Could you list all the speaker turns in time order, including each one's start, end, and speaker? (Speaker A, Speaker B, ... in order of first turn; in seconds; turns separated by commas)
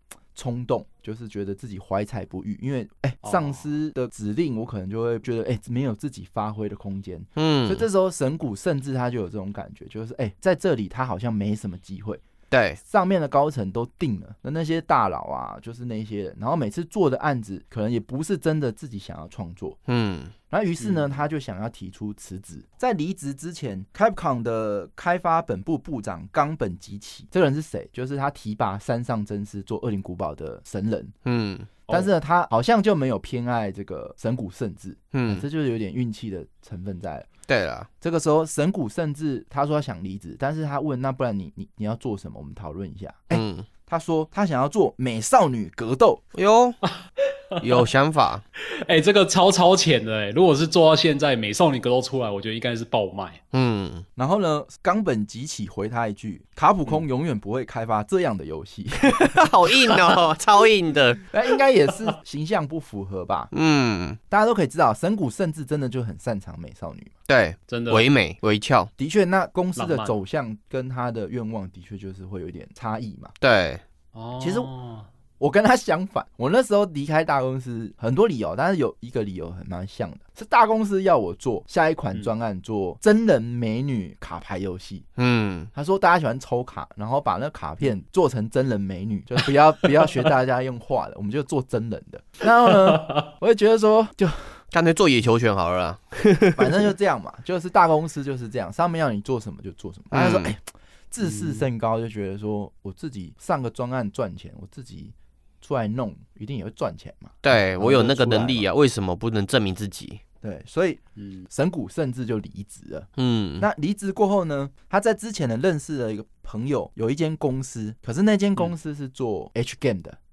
Speaker A: 0.3-12.2, Speaker B: 3.2-3.6, Speaker C: 7.4-7.8, Speaker C: 12.5-12.8, Speaker A: 12.8-19.8, Speaker C: 19.9-20.3, Speaker A: 20.5-31.1, Speaker B: 20.8-21.1, Speaker C: 31.2-31.7, Speaker A: 31.9-37.3, Speaker C: 35.1-35.5, Speaker C: 37.5-37.9, Speaker A: 38.0-46.2, Speaker C: 43.3-43.7, Speaker C: 46.3-46.8, Speaker B: 46.9-47.9, Speaker C: 47.6-48.4, Speaker B: 48.6-53.4, Speaker C: 53.5-54.0, Speaker A: 54.2-59.5, Speaker C: 59.1-61.2, Speaker A: 61.3-63.5, Speaker C: 63.5-64.2, Speaker A: 64.3-67.1, Speaker C: 67.3-68.9, Speaker B: 67.7-68.1, Speaker A: 69.0-73.3, Speaker B: 69.8-70.2, Speaker C: 73.4-73.8, Speaker B: 74.1-75.1, Speaker A: 74.4-74.7, Speaker A: 75.4-85.1, Speaker C: 85.2-85.7, Speaker A: 85.7-94.6, Speaker B: 92.7-93.2, Speaker C: 94.7-96.9, Speaker A: 96.6-108.7, Speaker C: 100.1-100.5, Speaker B: 101.2-101.7, Speaker C: 107.4-110.2, Speaker A: 110.4-113.1, Speaker B: 111.2-111.5, Speaker C: 113.2-113.7, Speaker A: 113.6-120.2